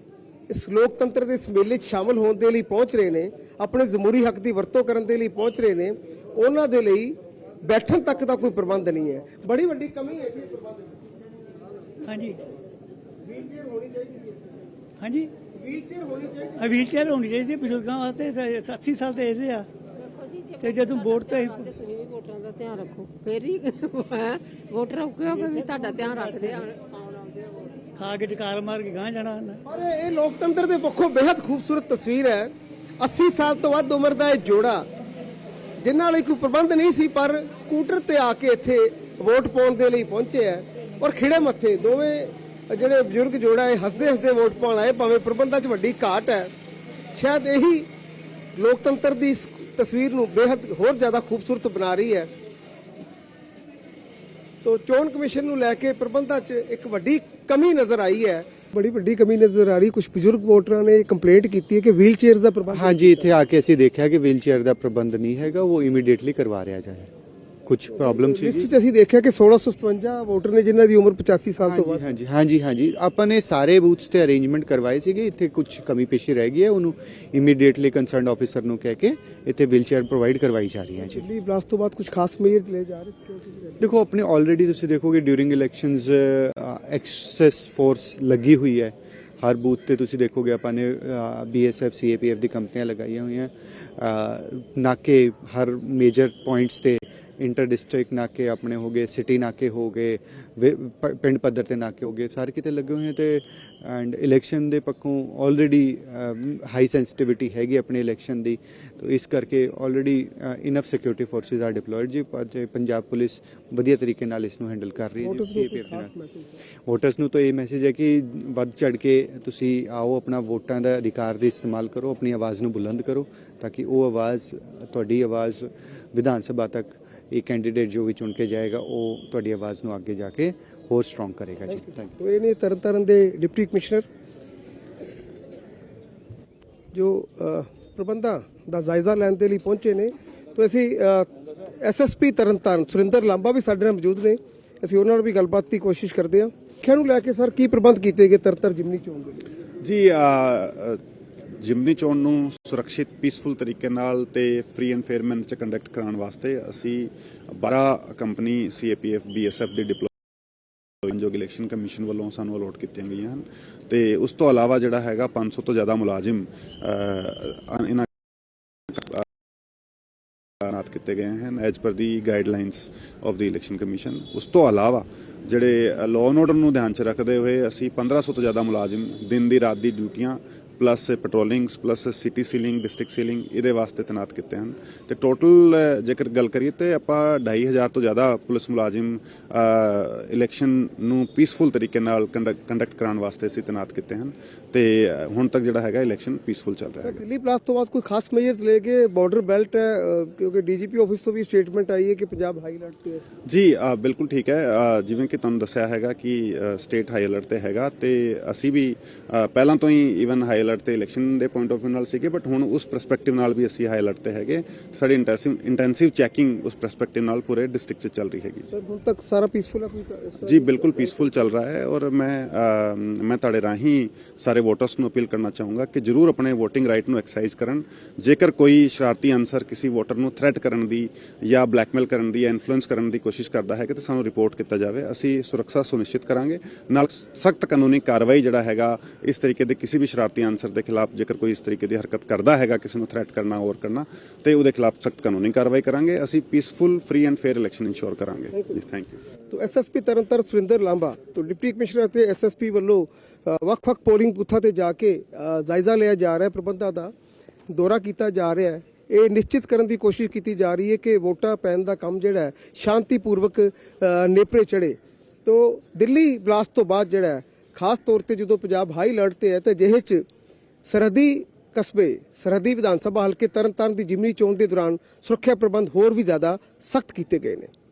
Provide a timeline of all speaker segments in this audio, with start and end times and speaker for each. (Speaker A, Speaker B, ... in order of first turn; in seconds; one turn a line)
Speaker A: 0.5-11.0
Speaker B: 12.1-12.4
Speaker A: 13.2-14.5
Speaker B: 15.0-15.3
Speaker A: 15.5-16.8
Speaker B: 16.6-19.7
Speaker C: 19.9-27.8
Speaker B: 20.6-21.7
Speaker B: 25.3-26.6
Speaker B: 28.0-29.6
Speaker A: 29.6-34.9
Speaker A: 35.8-46.5
Speaker A: 47.1-47.9
Speaker A: 48.5-52.3
Speaker A: 54.6-63.3
Speaker D: 62.7-67.1
Speaker D: 67.7-68.7
Speaker A: 67.9-72.0
Speaker D: 71.6-81.3
Speaker A: 81.0-83.9
Speaker D: 83.8-116.1
Speaker A: 115.2-116.6
Speaker D: 116.9-132.1
Speaker A: 131.7-134.1
Speaker A: 136.9-149.4
Speaker E: 149.8-151.0
Speaker E: 151.6-160.1
Speaker E: 161.0-168.1
Speaker E: 168.9-169.2
Speaker E: 170.7-197.2
Speaker A: 197.0-203.2
Speaker E: 203.5-218.7
Speaker A: 218.7-221.3
Speaker E: 220.4-249.2
Speaker A: 249.5-257.1
Speaker A: 257.7-270.3
Speaker A: 270.9-277.7